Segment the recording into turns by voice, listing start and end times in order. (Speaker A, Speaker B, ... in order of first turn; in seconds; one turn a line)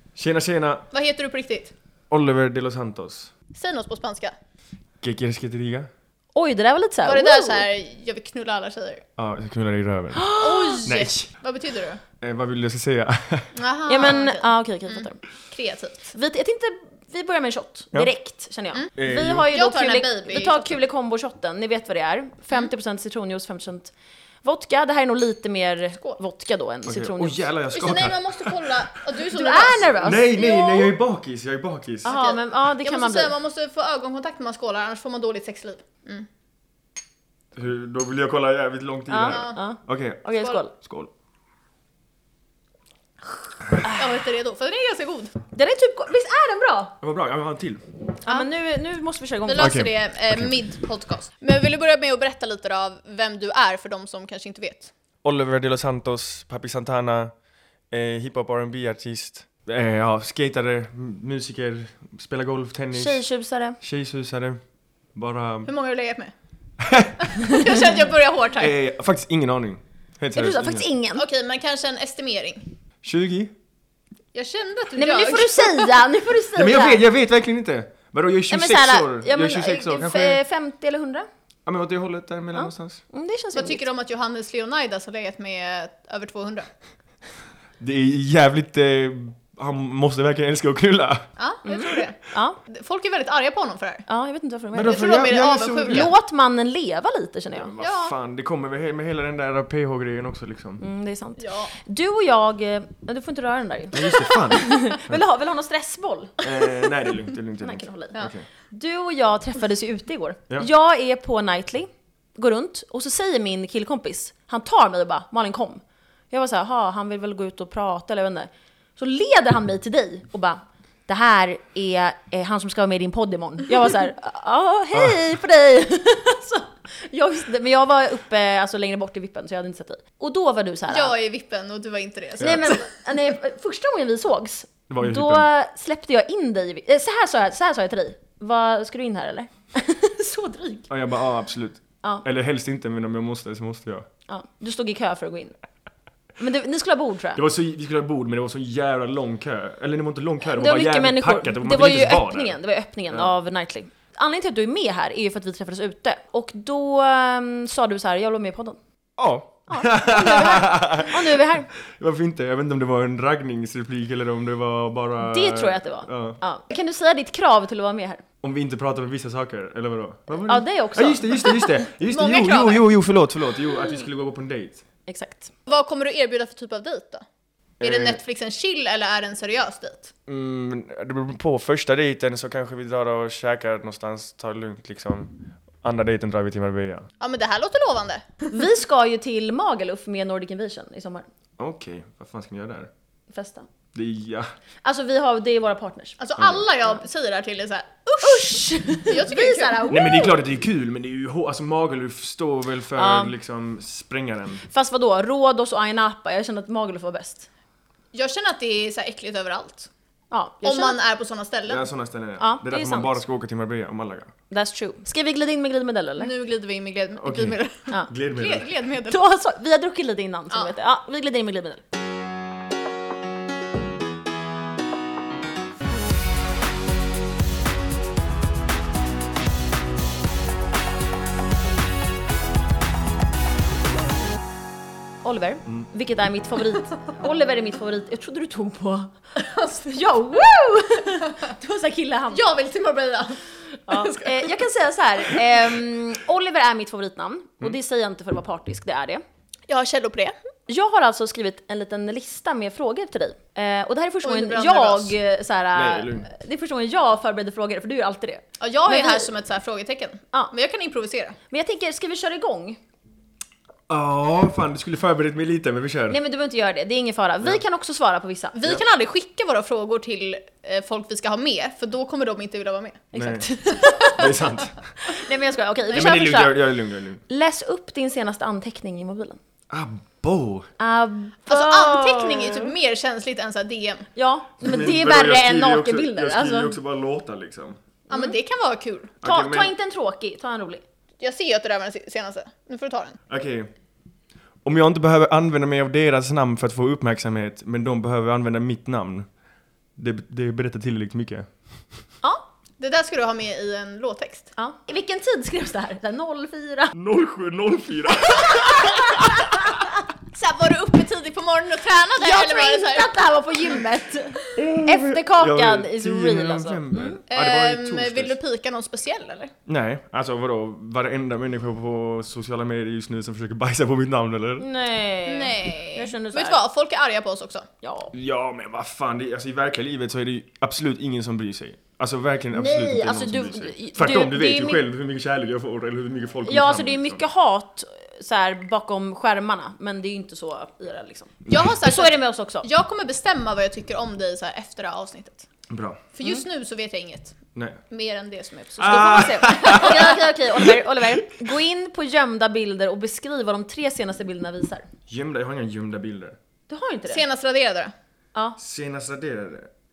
Speaker A: 0.1-0.9
Speaker B: 0.9-1.7
Speaker A: 2.1-3.3
Speaker B: 3.5-4.3
Speaker A: 5.0-5.9
Speaker C: 6.3-7.7
Speaker B: 7.0-9.0
Speaker A: 9.2-10.3
Speaker C: 10.2-10.8
Speaker B: 10.4-12.0
Speaker A: 10.8-11.3
Speaker A: 12.2-13.5
Speaker B: 13.5-16.1
Speaker C: 13.9-15.2
Speaker C: 16.1-23.9
Speaker A: 19.0-19.5
Speaker B: 19.5-20.8
Speaker C: 24.4-27.5
Speaker A: 26.9-28.8
Speaker B: 27.7-30.9
Speaker C: 29.3-30.6
Speaker A: 30.0-32.1
Speaker B: 32.0-36.3
Speaker C: 32.0-33.4
Speaker A: 37.5-41.1
Speaker C: 39.1-40.7
Speaker B: 39.3-39.6
Speaker C: 43.8-44.2
Speaker B: 43.8-45.3
Speaker C: 45.5-47.0
Speaker A: 47.0-47.8
Speaker C: 48.2-49.9
Speaker B: 49.5-54.9
Speaker A: 49.6-50.6
Speaker A: 55.2-57.3
Speaker A: 57.9-63.2
Speaker C: 62.9-63.8
Speaker A: 63.8-64.6
Speaker A: 65.2-65.7
Speaker B: 65.7-66.3
Speaker A: 66.8-67.3
Speaker B: 67.2-68.7
Speaker A: 68.6-70.9
Speaker C: 70.3-71.2
Speaker B: 71.2-72.7
Speaker A: 73.0-73.5
Speaker B: 74.3-75.9
Speaker C: 75.0-77.0
Speaker A: 76.5-80.4
Speaker C: 78.5-81.3
Speaker A: 81.7-83.0
Speaker C: 82.5-83.8
Speaker B: 83.5-86.7
Speaker A: 87.8-91.2
Speaker B: 91.4-92.2
Speaker C: 91.7-92.6
Speaker B: 92.7-94.0
Speaker C: 94.1-95.0
Speaker A: 94.7-96.1
Speaker B: 94.9-96.1
Speaker C: 95.8-97.8
Speaker A: 97.6-100.8
Speaker B: 97.8-98.1
Speaker C: 100.8-106.9
Speaker B: 101.4-101.8
Speaker A: 103.9-105.2
Speaker A: 106.4-108.5
Speaker C: 107.6-131.1
Speaker A: 124.9-125.2
Speaker B: 130.9-132.9
Speaker A: 132.4-132.7
Speaker C: 132.4-140.9
Speaker A: 134.9-135.5
Speaker A: 140.9-144.1
Speaker C: 144.3-145.6
Speaker C: 146.4-147.4
Speaker A: 147.3-152.6
Speaker C: 150.4-158.8
Speaker A: 159.2-166.4
Speaker C: 159.7-161.7
Speaker C: 165.2-168.2
Speaker A: 168.4-174.8
Speaker C: 170.5-171.7
Speaker B: 172.1-172.8
Speaker C: 175.1-175.5
Speaker B: 175.7-177.2
Speaker A: 177.8-178.2
Speaker B: 177.8-180.1
Speaker A: 180.3-187.1
Speaker B: 187.2-188.3
Speaker C: 188.5-191.3
Speaker A: 191.6-192.9
Speaker C: 193.3-193.7
Speaker A: 193.9-194.5
Speaker C: 194.8-196.2
Speaker B: 196.2-199.9
Speaker A: 196.4-196.7
Speaker C: 198.2-200.3
Speaker A: 199.9-204.6
Speaker C: 202.9-203.3
Speaker C: 204.7-207.5
Speaker B: 208.1-209.9
Speaker C: 210.3-211.0
Speaker B: 210.6-211.8
Speaker A: 211.7-214.3
Speaker C: 212.4-213.1
Speaker C: 214.5-216.3
Speaker B: 216.2-219.2
Speaker A: 217.2-218.7
Speaker C: 219.1-221.8
Speaker C: 235.2-242.4
Speaker B: 242.3-244.5
Speaker C: 243.9-249.2
Speaker B: 249.7-250.3
Speaker C: 250.7-259.3
Speaker B: 254.2-255.2
Speaker A: 255.7-256.3
Speaker B: 258.6-261.4
Speaker C: 261.5-262.8
Speaker A: 263.9-266.2
Speaker C: 266.1-268.6
Speaker B: 268.5-273.1
Speaker C: 273.1-274.3
Speaker A: 273.1-273.5
Speaker B: 273.7-274.3
Speaker A: 274.1-274.8
Speaker C: 275.0-276.7
Speaker A: 275.9-277.2
Speaker C: 277.3-279.4
Speaker A: 279.7-280.7
Speaker C: 280.8-282.7
Speaker B: 281.5-284.1
Speaker C: 284.2-286.8
Speaker A: 284.6-287.8
Speaker B: 288.1-289.1
Speaker C: 288.1-288.4
Speaker A: 289.2-289.7
Speaker C: 289.2-290.8
Speaker B: 291.2-293.2
Speaker A: 293.3-293.7
Speaker A: 294.6-299.3
Speaker A: 300.0-301.5
Speaker B: 302.8-304.5
Speaker C: 304.6-306.9
Speaker A: 306.9-309.8
Speaker C: 308.6-309.9
Speaker B: 310.3-313.1
Speaker C: 312.2-317.2
Speaker A: 314.6-318.4
Speaker B: 317.3-319.5
Speaker A: 319.7-324.7
Speaker C: 324.6-326.6
Speaker B: 325.3-327.7
Speaker C: 327.8-328.1
Speaker A: 328.1-337.2
Speaker C: 332.5-334.8
Speaker C: 336.5-342.6
Speaker B: 341.5-345.5
Speaker A: 345.7-346.0
Speaker B: 346.1-347.4
Speaker A: 347.6-347.8
Speaker B: 347.9-350.2
Speaker A: 348.8-350.8
Speaker C: 348.9-354.9
Speaker A: 355.1-356.4
Speaker C: 356.7-357.2
Speaker B: 357.1-357.9
Speaker A: 358.6-359.7